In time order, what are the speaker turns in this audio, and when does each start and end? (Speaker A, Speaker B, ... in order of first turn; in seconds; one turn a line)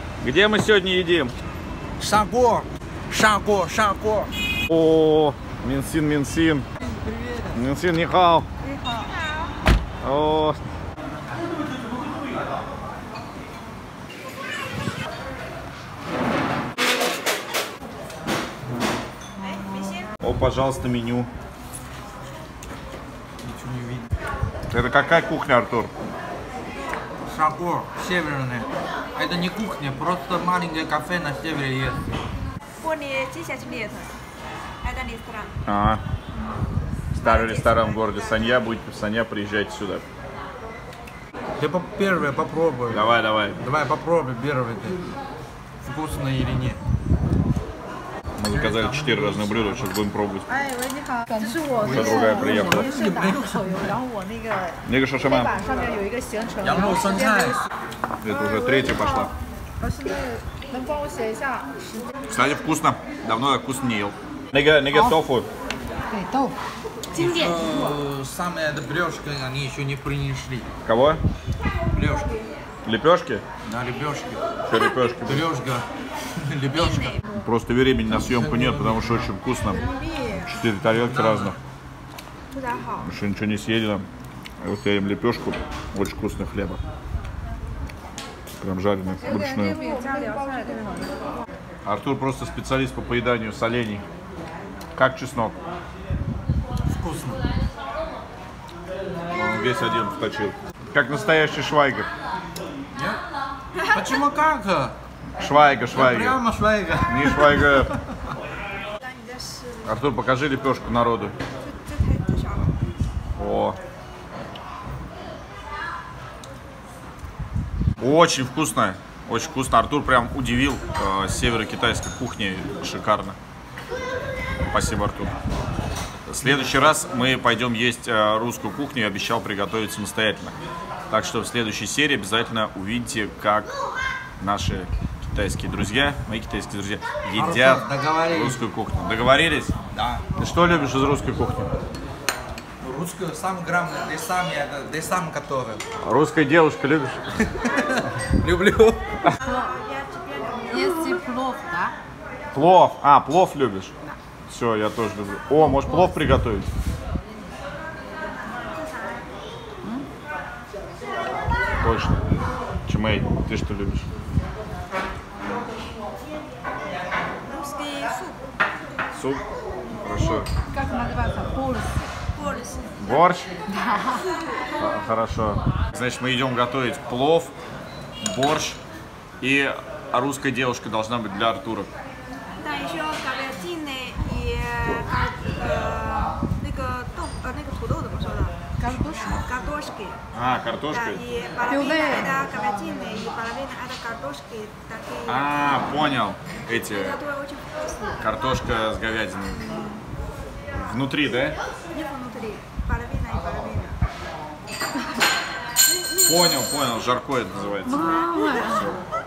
Speaker A: 0.2-1.3
Speaker B: 2.0-4.3
Speaker A: 4.7-6.7
Speaker B: 6.8-7.6
Speaker A: 7.5-8.5
Speaker C: 8.6-9.5
Speaker A: 10.0-10.6
Speaker C: 19.4-20.1
Speaker A: 20.2-21.3
Speaker B: 23.4-24.1
Speaker A: 24.7-25.9
Speaker B: 27.3-32.1
Speaker C: 32.8-34.1
Speaker C: 34.8-35.5
Speaker A: 35.7-36.0
Speaker C: 37.1-38.6
Speaker A: 37.2-40.0
Speaker B: 41.6-45.0
Speaker A: 42.9-43.6
Speaker B: 45.9-46.8
Speaker A: 48.4-50.5
Speaker B: 48.4-50.0
Speaker D: 50.5-57.5
Speaker B: 51.7-54.0
Speaker A: 51.9-52.9
Speaker A: 54.8-55.6
Speaker B: 56.6-57.6
Speaker A: 58.2-59.3
Speaker D: 58.3-62.0
Speaker A: 62.3-65.5
Speaker D: 64.9-65.2
Speaker D: 66.1-66.6
Speaker B: 67.1-70.7
Speaker A: 70.8-71.2
Speaker B: 71.9-72.3
Speaker A: 72.8-73.4
Speaker B: 73.6-74.4
Speaker A: 74.7-75.5
Speaker B: 75.2-77.2
Speaker C: 76.7-77.2
Speaker A: 77.3-81.6
Speaker B: 78.1-79.3
Speaker C: 79.7-80.5
Speaker B: 80.8-81.6
Speaker C: 82.5-83.1
Speaker A: 83.0-84.1
Speaker A: 84.6-86.8
Speaker A: 88.6-89.8
Speaker D: 89.2-91.1
Speaker C: 89.5-91.1
Speaker A: 91.8-94.0
Speaker A: 95.0-95.6
Speaker B: 96.9-97.4
Speaker A: 99.3-102.1
Speaker B: 102.9-103.2
Speaker B: 103.9-105.0
Speaker A: 105.4-106.4
Speaker B: 105.9-108.0
Speaker A: 107.1-107.9
Speaker C: 109.0-109.8
Speaker A: 109.8-111.3
Speaker C: 111.6-112.8
Speaker A: 113.4-113.8
Speaker A: 118.0-123.4
Speaker A: 124.7-125.3
Speaker A: 126.3-130.6
Speaker A: 131.1-133.7
Speaker A: 134.4-139.7
Speaker B: 137.3-138.6
Speaker B: 139.9-140.3
Speaker A: 140.4-141.7
Speaker B: 142.8-145.8
Speaker A: 146.0-147.2
Speaker B: 147.6-149.0
Speaker C: 149.4-151.2
Speaker D: 149.4-149.7
Speaker D: 150.7-152.0
Speaker A: 152.5-153.9
Speaker A: 154.5-156.7
Speaker D: 155.6-156.2
Speaker C: 158.4-159.3
Speaker A: 161.8-162.2
Speaker A: 162.9-164.1
Speaker C: 167.5-168.4
Speaker A: 169.1-169.4
Speaker A: 170.0-170.5
Speaker D: 170.2-172.1
Speaker C: 172.3-173.2
Speaker A: 173.0-173.5
Speaker D: 173.7-174.2
Speaker A: 174.8-177.5
Speaker A: 178.2-178.8
Speaker A: 179.4-181.9
Speaker C: 182.6-188.6
Speaker D: 188.8-189.5
Speaker C: 189.3-190.2
Speaker A: 190.3-191.2
Speaker C: 190.9-195.9
Speaker D: 191.7-192.4
Speaker A: 195.3-197.2
Speaker C: 196.9-198.2
Speaker A: 198.2-199.6
Speaker C: 199.5-200.1
Speaker A: 200.7-201.6
Speaker C: 201.9-204.0
Speaker C: 205.9-206.7
Speaker A: 206.2-208.2
Speaker C: 207.8-208.9
Speaker D: 207.9-208.9